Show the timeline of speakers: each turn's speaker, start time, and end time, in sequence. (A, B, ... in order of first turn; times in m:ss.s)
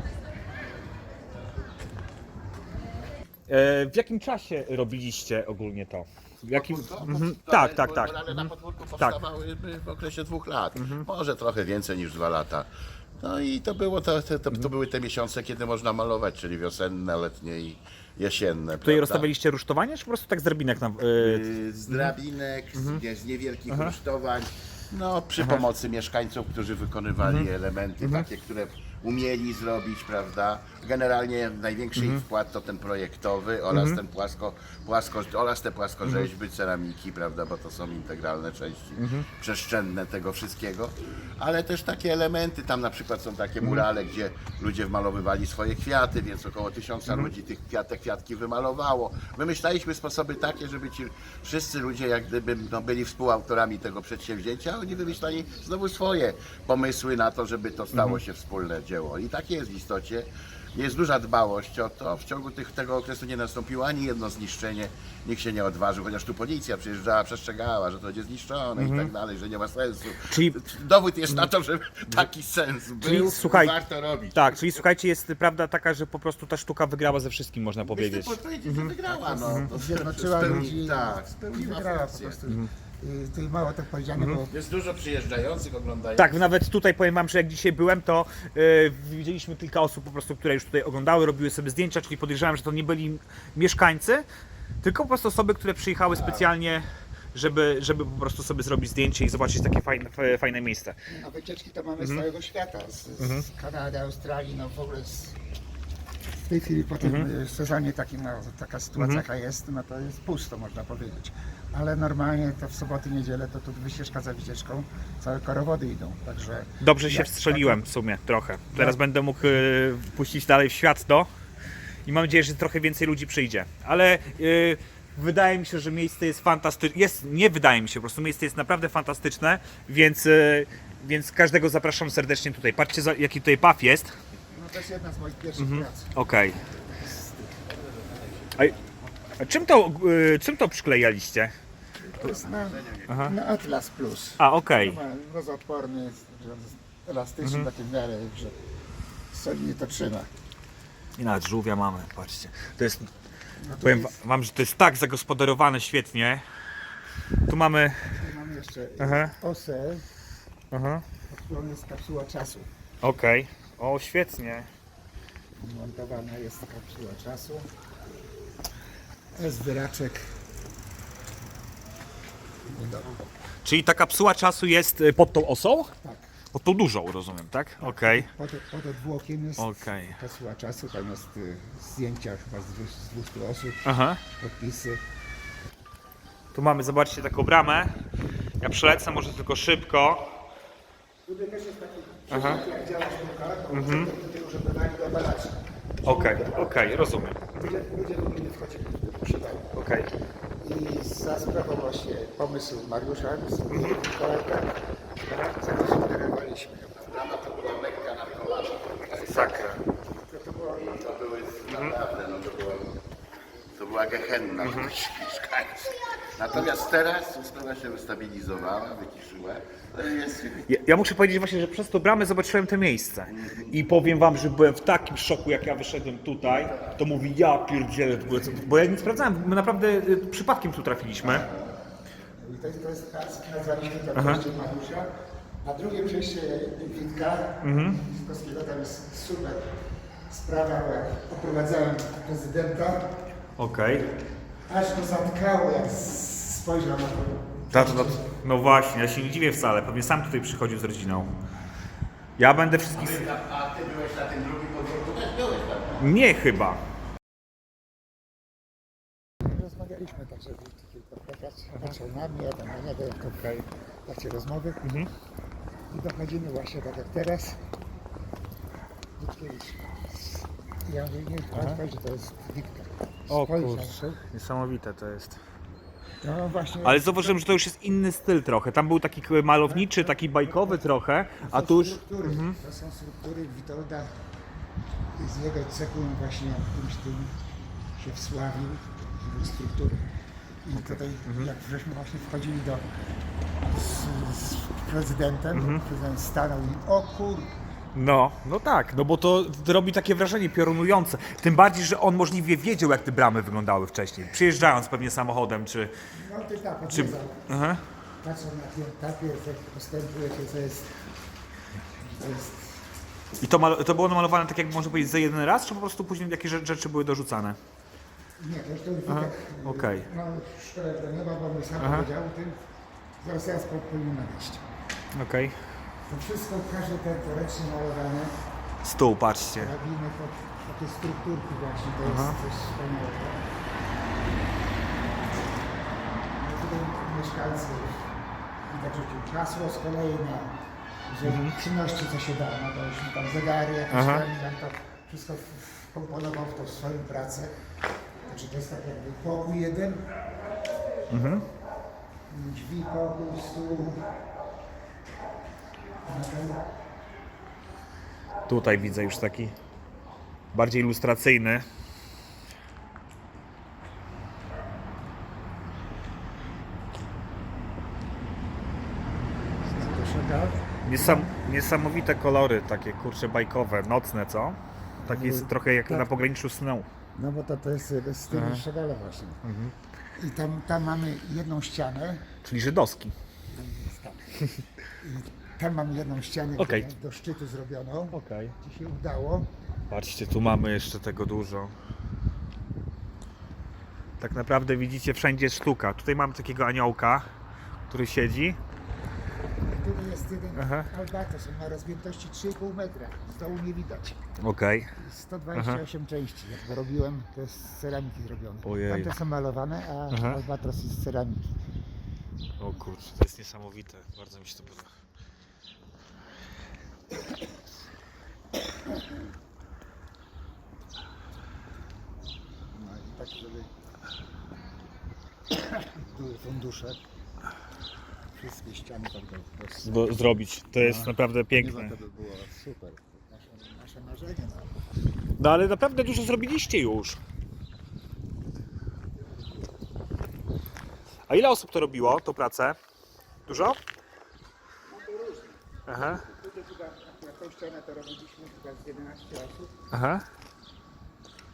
0:03.5-0:09.2 A
0:06.5-0:19.3 B
0:10.7-0:11.0 A
0:18.8-0:22.1 A
0:21.2-1:14.8 B
0:22.7-0:23.0 A
0:23.7-0:24.0 A
0:25.4-0:25.6 A
0:27.2-0:27.5 A
0:28.0-0:28.3 A
0:31.9-0:32.2 A
0:33.7-0:34.0 A
0:36.0-0:36.3 A
0:39.0-0:39.3 A
0:57.9-0:58.2 A
1:08.8-1:09.1 A
1:10.2-1:10.6 A
1:13.0-1:13.8 A
1:14.3-1:18.9 A
1:17.8-1:22.4 B
1:19.1-1:24.5 C
1:24.2-1:24.4 A
1:24.5-1:26.4 B
1:26.2-1:34.2 A
1:34.8-1:41.0 A
1:36.2-1:36.4 B
1:41.1-1:45.4 C
1:42.0-1:42.2 A
1:43.2-1:43.4 A
1:46.4-1:57.8 C
1:47.0-1:47.3 A
1:49.0-1:49.2 A
1:56.8-2:01.3 A
1:58.7-1:59.0 C
2:02.0-2:14.1 A
2:14.5-2:16.1 C
2:15.6-2:16.6 A
2:16.9-2:17.5 C
2:18.0-2:18.9 B
2:19.4-2:21.5 A
2:22.0-2:28.5 C
2:22.1-2:23.4 B
2:23.1-2:23.4 A
2:24.4-2:25.0 A
2:27.4-2:27.7 A
2:29.3-2:30.3 C
2:31.2-2:33.1 A
2:33.6-2:34.2 C
2:33.8-2:36.4 A
2:37.4-2:38.2 A
2:38.2-2:40.0 C
2:39.0-2:39.4 A
2:40.7-2:41.0 A
2:41.3-2:42.7 C
2:43.0-2:44.7 A
2:45.6-2:47.7 C
2:49.4-2:50.3 C
2:52.7-2:53.3 C
2:53.6-2:55.9 A
2:56.5-2:58.3 A
2:57.8-3:03.8 C
2:59.6-3:00.2 A
3:03.8-3:04.2 A
3:04.4-3:05.0 C
3:06.5-3:07.9 A
3:08.6-3:10.3 A
3:11.2-3:19.7 C
3:12.3-3:12.6 A
3:13.7-3:14.1 A
3:16.0-3:17.4 A
3:19.7-3:20.1 A
3:20.6-3:24.7 C
3:23.7-3:24.0 A
3:25.2-3:27.0 C
3:27.0-3:29.7 B
3:29.1-3:29.8 A
3:30.2-3:31.0 C
3:30.7-3:32.9 B
3:31.7-3:32.0 A
3:33.7-3:40.7 B
3:34.6-3:34.9 A
3:40.7-3:51.5 A
3:43.3-3:43.8 B
3:51.2-3:51.7 C
3:52.4-3:55.1 C
3:54.1-3:54.4 A
3:55.6-3:59.7 C
3:57.6-3:58.0 A
4:00.3-4:03.0 C
4:03.6-4:04.1 A
4:04.7-4:08.3 C
4:07.7-4:11.3 A
4:12.4-4:13.3 A
4:12.9-4:16.1 B
4:16.0-4:16.8 A
4:19.4-4:23.5 C
4:21.7-4:22.0 A
4:23.3-4:23.6 A
4:24.0-4:24.8 C
4:24.8-4:25.1 A
4:25.9-4:27.6 C
4:29.2-4:29.8 C
4:30.8-4:34.2 C
4:31.5-4:31.8 A
4:33.3-4:35.4 A
4:36.2-4:37.6 C
4:36.8-4:42.6 A
4:39.6-4:40.9 C
4:41.4-4:44.1 C
4:45.1-4:47.3 C
4:48.0-4:50.1 C
4:50.6-4:52.8 C
4:50.7-4:51.5 A
4:53.7-4:57.5 C
4:55.5-4:55.8 A
4:57.9-5:05.9 A
5:06.1-5:07.4 C
5:06.9-5:07.8 A
5:08.2-5:10.9 C
5:12.0-5:12.8 C
5:13.4-5:17.6 A
5:18.4-5:22.5 C
5:19.1-5:20.1 A
5:21.8-5:22.1 A
5:23.2-5:24.6 C
5:25.1-5:25.6 A
5:26.1-5:28.3 C
5:28.8-5:29.7 A
5:29.6-5:33.4 C
5:32.0-5:32.4 A
5:36.4-5:38.1 C
5:38.7-5:40.5 C
5:41.1-5:47.5 C
5:41.2-5:41.6 A
5:43.9-5:44.3 A
5:48.3-5:50.1 C
5:51.1-5:51.4 A
5:52.3-5:54.0 C
5:56.0-5:56.6 C
5:58.5-5:59.5 A
6:00.5-6:01.6 A
6:09.6-6:11.4 C
6:10.8-6:16.9 A
6:15.0-6:16.2 C
6:17.1-6:19.4 C
6:18.3-6:18.6 A
6:19.4-6:19.7 A
6:20.2-6:22.2 C
6:22.4-6:23.1 A
6:23.5-6:24.4 C
6:25.0-6:29.5 C
6:26.6-6:26.9 A
6:28.1-6:28.5 A
6:29.9-6:31.7 A
6:34.2-6:37.3 A
6:37.9-6:38.6 A
6:39.6-6:44.2 C
6:40.6-6:40.9 A
6:44.4-6:44.9 A
6:44.9-6:51.5 C
6:45.5-6:45.8 A
6:48.6-6:49.1 A
6:50.1-6:50.4 A
6:52.6-6:54.9 A
7:02.7-7:03.7 C
7:05.5-7:07.0 C
7:08.4-7:10.1 C
7:09.8-7:12.0 A
7:10.8-7:14.7 C
7:15.4-7:17.2 A
7:21.3-7:22.8 A
7:23.5-7:23.8 A
7:24.9-7:29.7 C
7:25.9-7:26.2 A
7:29.9-7:30.2 A